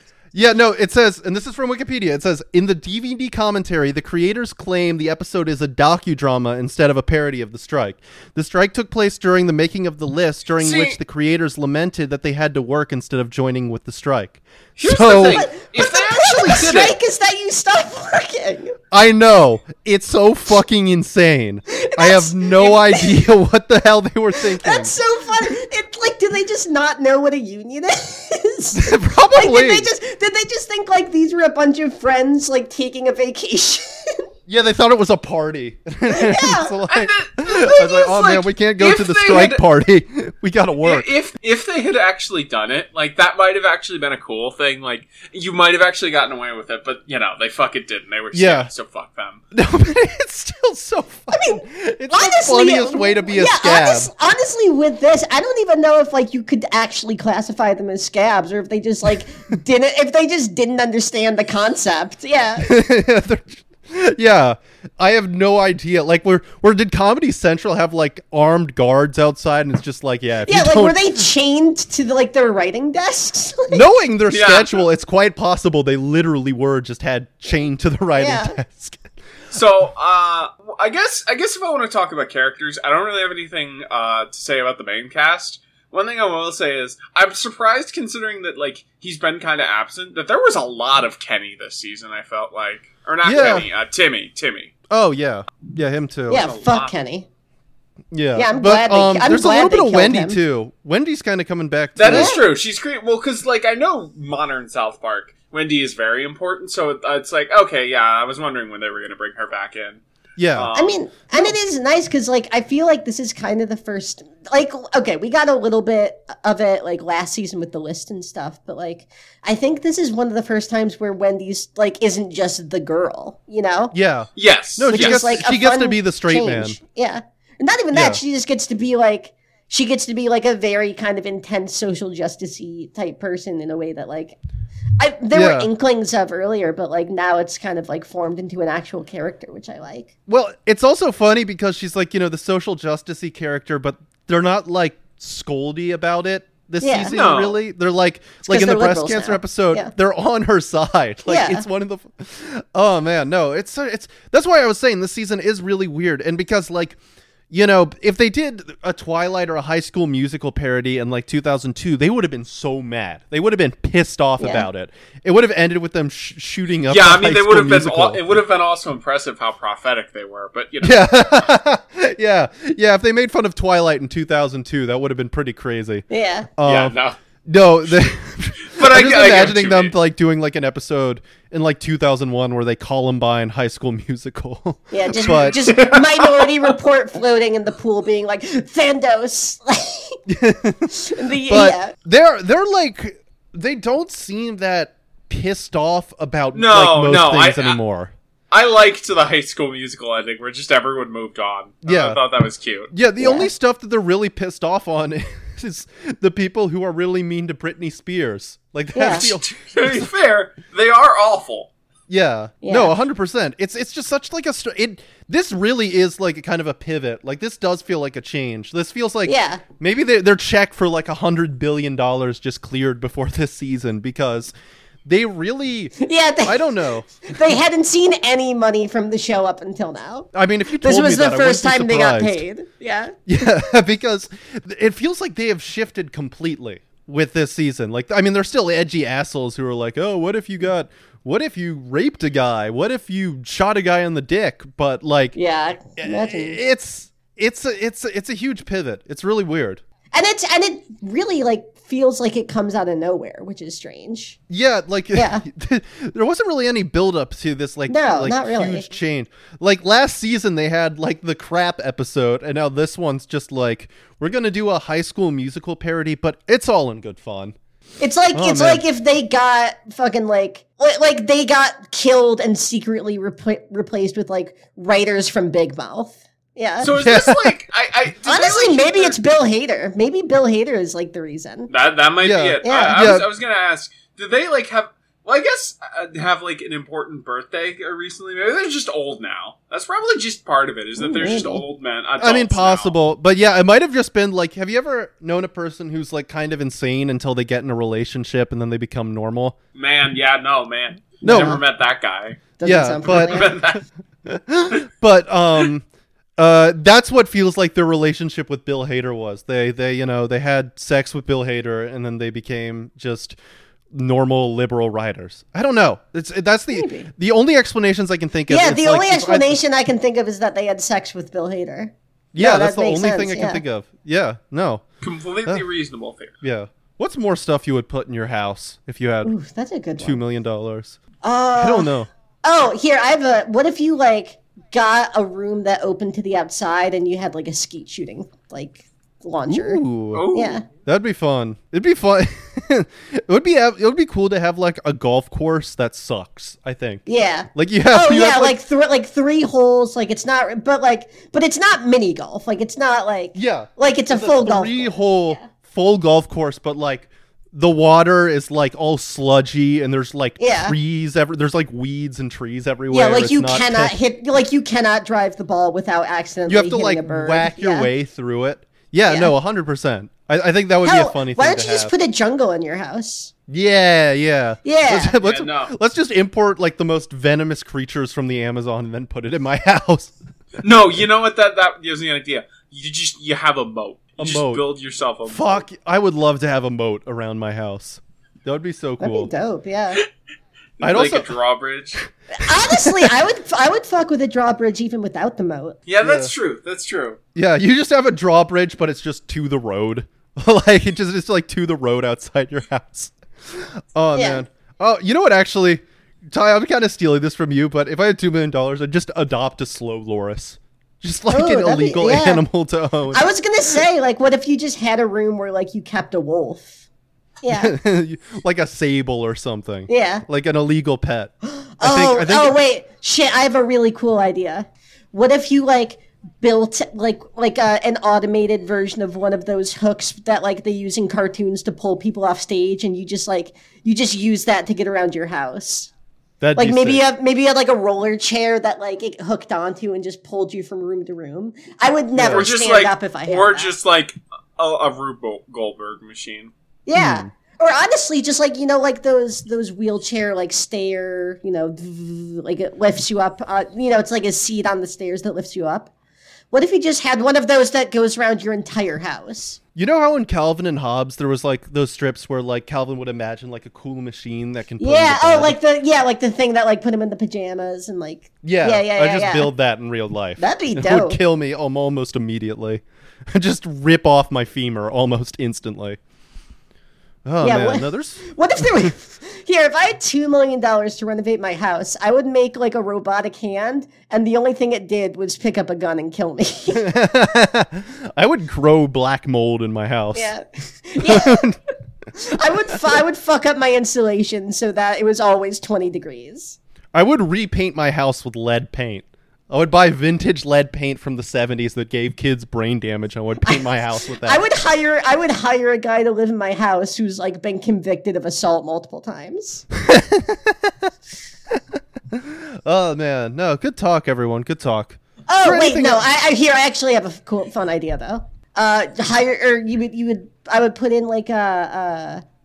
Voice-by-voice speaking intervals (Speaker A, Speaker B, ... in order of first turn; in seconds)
Speaker A: 0.3-15.5, 18.9-24.9, 28.7-29.9, 34.5-41.1, 48.3-48.7, 49.5-54.1, 62.6-71.2, 73.7-79.0, 93.2-93.7, 94.9-96.4, 98.1-102.4, 110.4-110.7, 123.9-126.8, 127.9-128.2, 135.3-135.7, 140.3-157.0, 157.5-168.2, 170.8-176.1, 176.6-176.9, 177.4-185.6, 190.3-198.1, 201.8-202.2, 202.9-210.1, 212.1-224.5, 225.0-227.2, 230.3-232.4, 233.3-245.4, 246.0-249.8, 254.5-267.5, 268.3-268.8, 276.9-277.6, 282.2-283.3, 292.2-299.6, 301.2-301.6, 302.6-305.8, 306.4-313.4, 313.9-319.6, 322.3-324.8, 326.4-329.3, 330.0-331.0, 331.6-332.1, 339.5-340.3, 340.8-348.6, 353.3-363.9, 366.5-371.9, 373.5-380.1, 384.2-384.6, 385.3-389.3, 390.8-391.3, 392.7-393.1, 396.0-396.3, 397.3-413.3, 417.5-422.6, 436.4-437.0, 442.1-442.5, 446.9-447.3, 459.8-465.6, 468.4-476.0, 477.2-478.2, 486.7-490.3, 491.0-491.6, 496.9-504.4, 509.8-510.8, 512.1-516.0
Speaker B: 10.6-11.0, 14.8-16.9, 36.9-39.6, 40.8-49.4, 74.3-74.8, 79.5-94.7, 96.3-96.9, 102.0-110.0, 110.5-111.0, 124.3-125.4, 147.1-147.6, 166.9-171.5, 176.6-177.2, 178.7-179.9, 185.4-186.5, 196.5-197.8, 198.5-202.9, 209.1-211.7, 276.8-279.2, 281.7-292.9, 299.7-302.5, 303.0-303.8, 325.0-326.3, 340.1-340.6, 375.2-375.7, 380.6-385.6, 390.8-392.0, 395.9-397.2, 442.3-446.5
Speaker C: 15.3-18.8, 21.7-23.2, 24.4-34.2, 36.1-36.7, 51.3-62.7, 70.5-73.8, 78.2-78.6, 96.3-97.2, 98.3-100.4, 102.1-102.4, 110.8-123.9, 124.9-134.3, 135.0-140.1, 146.8-147.1, 148.4-149.9, 151.3-151.6, 164.4-164.7, 176.1-176.5, 184.9-190.2, 190.9-191.9, 203.2-203.5, 208.9-209.3, 212.6-212.9, 219.2-219.6, 226.0-233.2, 245.3-246.6, 250.1-254.4, 255.1-255.4, 257.9-258.9, 268.0-276.9, 278.2-281.7, 282.6-283.2, 291.0-291.6, 301.2-301.6, 302.6-303.5, 316.7-317.1, 318.5-323.6, 329.2-330.2, 331.2-331.9, 332.4-340.6, 347.1-355.4, 360.4-360.8, 362.9-367.9, 369.1-369.3, 370.8-373.3, 374.6-375.1, 389.0-390.0, 392.3-395.8, 404.1-404.4, 411.3-412.4, 413.1-416.8, 417.4-417.8, 419.9-420.2, 421.5-435.9, 436.6-443.7, 446.9-455.9, 456.5-459.6, 464.8-469.5, 470.4-471.2, 477.4-487.0, 490.1-491.5, 492.2-496.6, 503.4-509.7, 515.3-522.2